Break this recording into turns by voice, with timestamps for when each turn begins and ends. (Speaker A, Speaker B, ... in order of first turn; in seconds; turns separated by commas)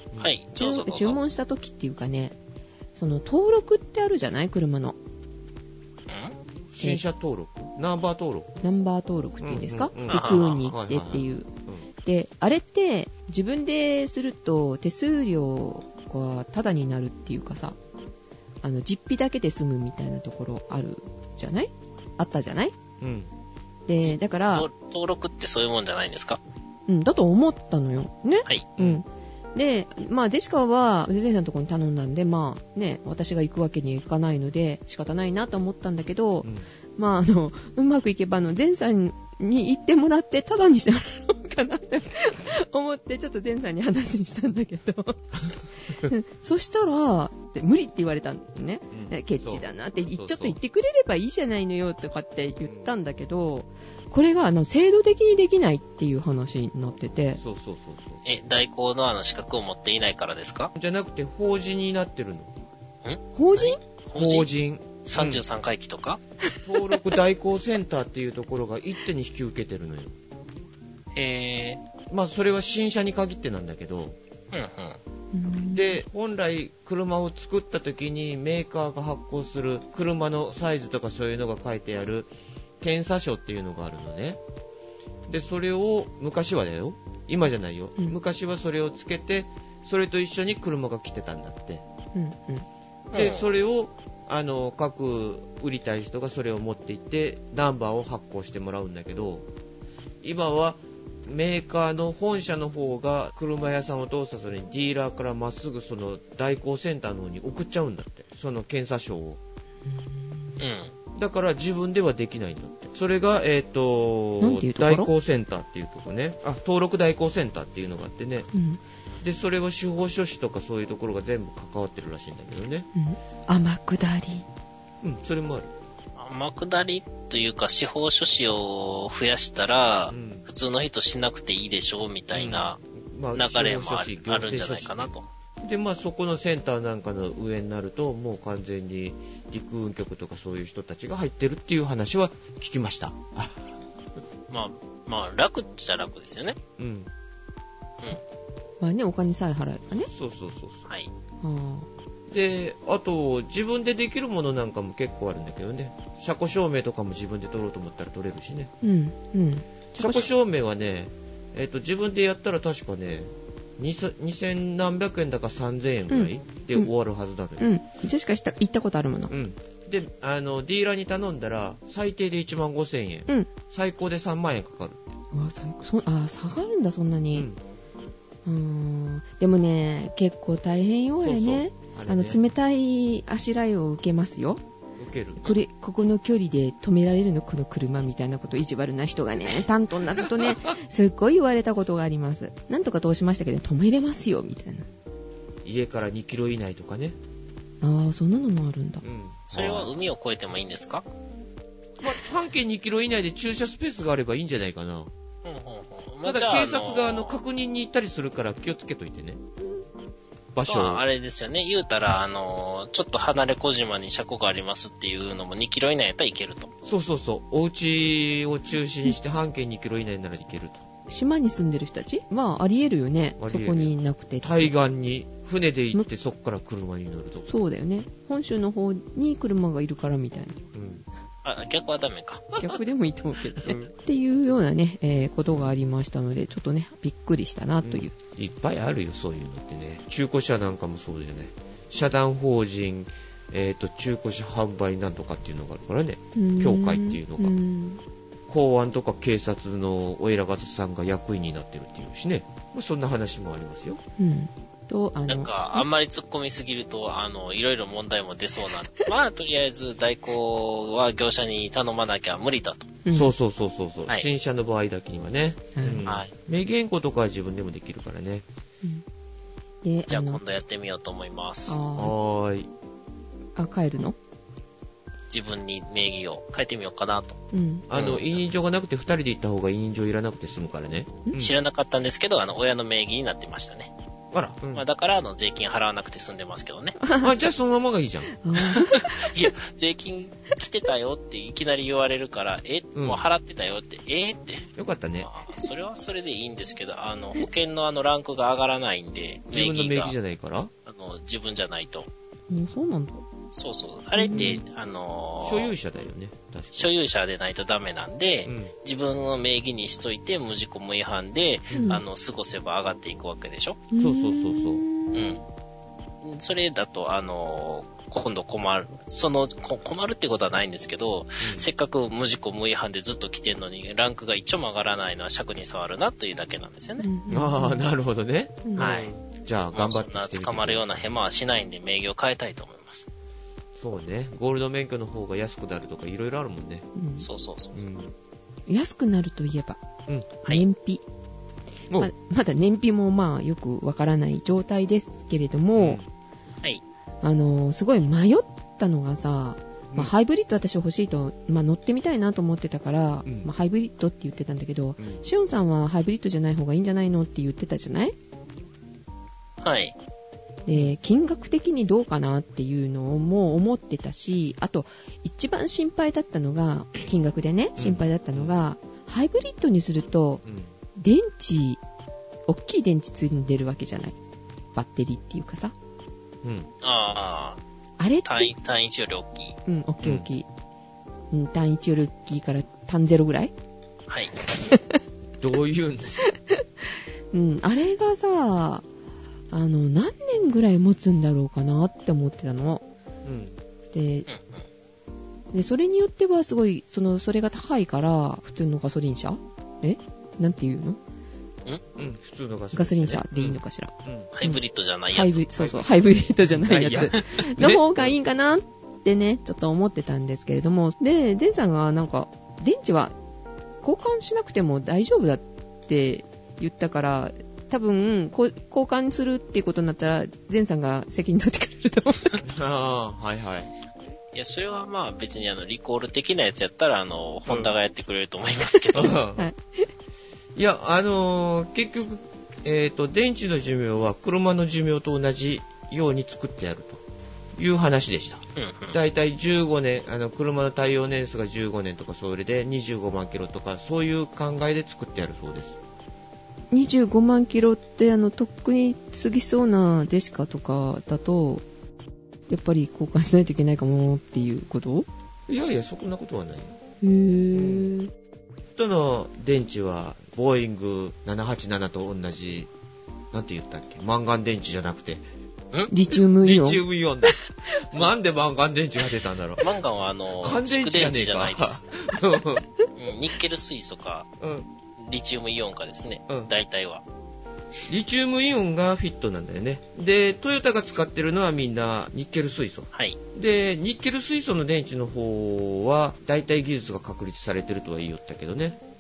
Speaker A: 0.2-1.2, Speaker B: 0.6-2.4, Speaker B: 3.0-5.0, Speaker A: 6.1-6.3, Speaker C: 6.7-8.6, Speaker B: 8.6-11.5, Speaker C: 9.4-11.9, Speaker A: 10.1-10.6, Speaker B: 12.0-17.8, Speaker B: 18.6-22.8, Speaker C: 23.0-23.3, Speaker B: 23.9-24.7, Speaker A: 24.0-26.4, Speaker B: 26.9-45.3, Speaker A: 28.5-28.8, Speaker C: 28.8-29.0, Speaker B: 45.8-57.4, Speaker C: 48.9-50.6, Speaker C: 52.6-53.0, Speaker C: 57.4-58.2, Speaker A: 58.2-60.7, Speaker C: 60.8-62.5, Speaker A: 63.0-64.5, Speaker B: 63.4-63.8, Speaker C: 64.2-65.4, Speaker A: 65.0-66.2, Speaker B: 66.5-67.0, Speaker C: 66.6-70.2, Speaker A: 71.2-71.8, Speaker C: 72.1-74.2, Speaker A: 74.5-75.0, Speaker B: 75.3-76.0, Speaker C: 75.7-84.4, Speaker C: 85.3-91.8, Speaker B: 92.1-92.7, Speaker A: 93.1-93.5, Speaker C: 93.1-99.5, Speaker C: 100.2-109.4, Speaker A: 110.6-110.9, Speaker C: 111.2-118.5, Speaker B: 114.4-115.1, Speaker B: 118.5-118.8, Speaker C: 119.2-122.9, Speaker B: 123.0-124.5, Speaker C: 125.0-125.7, Speaker A: 126.2-132.8, Speaker C: 130.1-130.4, Speaker C: 132.3-143.7, Speaker A: 133.3-135.3, Speaker A: 144.5-146.6, Speaker C: 146.8-147.1, Speaker B: 148.8-150.1, Speaker C: 150.0-150.9, Speaker B: 151.4-151.9, Speaker C: 152.3-158.7, Speaker B: 158.8-160.3, Speaker C: 160.0-167.7, Speaker B: 166.1-166.9, Speaker B: 167.6-169.3, Speaker C: 169.3-175.0, Speaker B: 175.3-177.5, Speaker C: 177.3-177.6, Speaker B: 178.5-184.6, Speaker C: 181.2-182.4, Speaker C: 185.0-185.6, Speaker B: 185.4-194.9, Speaker C: 195.7-197.2, Speaker B: 197.8-199.0, Speaker C: 199.0-199.9, Speaker A: 199.5-201.1, Speaker C: 202.0-205.1, Speaker A: 205.4-207.4, Speaker C: 206.2-209.4, Speaker C: 210.6-211.0, Speaker A: 210.7-216.7, Speaker C: 216.8-220.9, Speaker B: 221.1-224.7, Speaker C: 223.4-227.5, Speaker B: 227.5-230.7, Speaker C: 230.7-231.1, Speaker A: 231.4-232.5, Speaker B: 232.6-238.1, Speaker C: 233.6-233.9, Speaker C: 237.8-247.6, Speaker B: 246.4-248.0, Speaker C: 248.5-254.0, Speaker B: 254.2-255.9, Speaker A: 255.3-262.9, Speaker B: 263.1-263.3, Speaker C: 263.1-268.4, Speaker B: 265.8-266.1, Speaker A: 266.0-266.3, Speaker B: 269.8-270.4, Speaker A: 270.1-271.8, Speaker B: 271.7-272.1, Speaker C: 272.0-272.7, Speaker B: 273.6-274.2, Speaker A: 275.3-277.4, Speaker B: 277.5-277.9, Speaker C: 277.9-281.5, Speaker A: 277.9-278.4, Speaker A: 281.4-283.9, Speaker C: 284.3-284.8, Speaker A: 284.7-287.0, Speaker B: 287.0-287.4, Speaker C: 287.2-288.4, Speaker B: 288.4-289.3, Speaker A: 288.8-294.7, Speaker C: 292.9-293.2, Speaker C: 294.8-295.3, Speaker A: 295.2-300.1, Speaker C: 299.5-300.7, Speaker A: 300.9-302.1, Speaker B: 302.5-303.2, Speaker A: 303.5-305.7, Speaker B: 304.2-304.6, Speaker C: 304.3-304.6, Speaker C: 305.4-306.9, Speaker A: 306.7-313.8, Speaker C: 308.4-308.7, Speaker C: 311.7-312.0, Speaker B: 311.7-312.0, Speaker B: 313.9-315.4, Speaker C: 314.0-314.9, Speaker A: 315.1-315.4, Speaker A: 316.2-327.1, Speaker C: 321.4-321.7, Speaker B: 327.0-327.9, Speaker C: 327.3-331.1, Speaker A: 328.8-329.2, Speaker A: 329.7-333.1, Speaker C: 333.8-336.9, Speaker B: 336.9-337.3, Speaker A: 337.2-337.8, Speaker C: 337.8-338.1, Speaker B: 338.7-339.8, Speaker B: 340.5-341.0, Speaker B: 342.0-346.0, Speaker C: 345.8-346.1, Speaker B: 347.2-358.1, Speaker C: 355.0-355.2, Speaker A: 359.6-359.9, Speaker B: 360.7-370.4, Speaker C: 367.8-368.6, Speaker C: 370.4-370.7, Speaker B: 371.0-371.8, Speaker B: 372.5-374.2, Speaker B: 374.8-375.7, Speaker C: 376.4-376.7, Speaker A: 376.8-377.6, Speaker B: 378.0-378.5, Speaker A: 378.2-379.6, Speaker B: 379.7-380.5, Speaker C: 380.0-380.3, Speaker B: 381.3-383.5, Speaker A: 384.1-384.3, Speaker B: 384.5-385.0, Speaker C: 385.4-386.2, Speaker B: 386.3-386.6, Speaker B: 387.3-388.9, Speaker B: 389.5-392.8, Speaker C: 393.2-393.6, Speaker B: 393.9-394.3, Speaker A: 394.3-394.6, Speaker B: 395.5-401.0, Speaker C: 402.0-404.3, Speaker B: 402.7-404.6, Speaker A: 404.3-405.8, Speaker B: 405.1-413.1, Speaker C: 405.6-405.8, Speaker C: 406.4-408.1, Speaker B: 413.8-422.4, Speaker C: 422.4-423.7, Speaker A: 424.3-429.2, Speaker C: 427.5-427.7, Speaker C: 428.9-429.5, Speaker B: 429.4-429.9, Speaker C: 430.6-437.0, Speaker C: 437.6-445.8, Speaker A: 438.6-439.0, Speaker B: 446.7-451.6, Speaker B: 452.5-455.1, Speaker C: 455.5-456.8, Speaker B: 457.0-458.1, Speaker C: 457.5-457.9, Speaker C: 458.8-462.7, Speaker C: 463.3-465.2, Speaker B: 465.9-466.8, Speaker C: 466.4-469.7, Speaker A: 469.6-471.8, Speaker C: 470.4-472.6, Speaker A: 473.0-474.3, Speaker C: 474.4-474.7, Speaker A: 475.0-477.0, Speaker C: 477.9-488.8, Speaker A: 482.9-483.2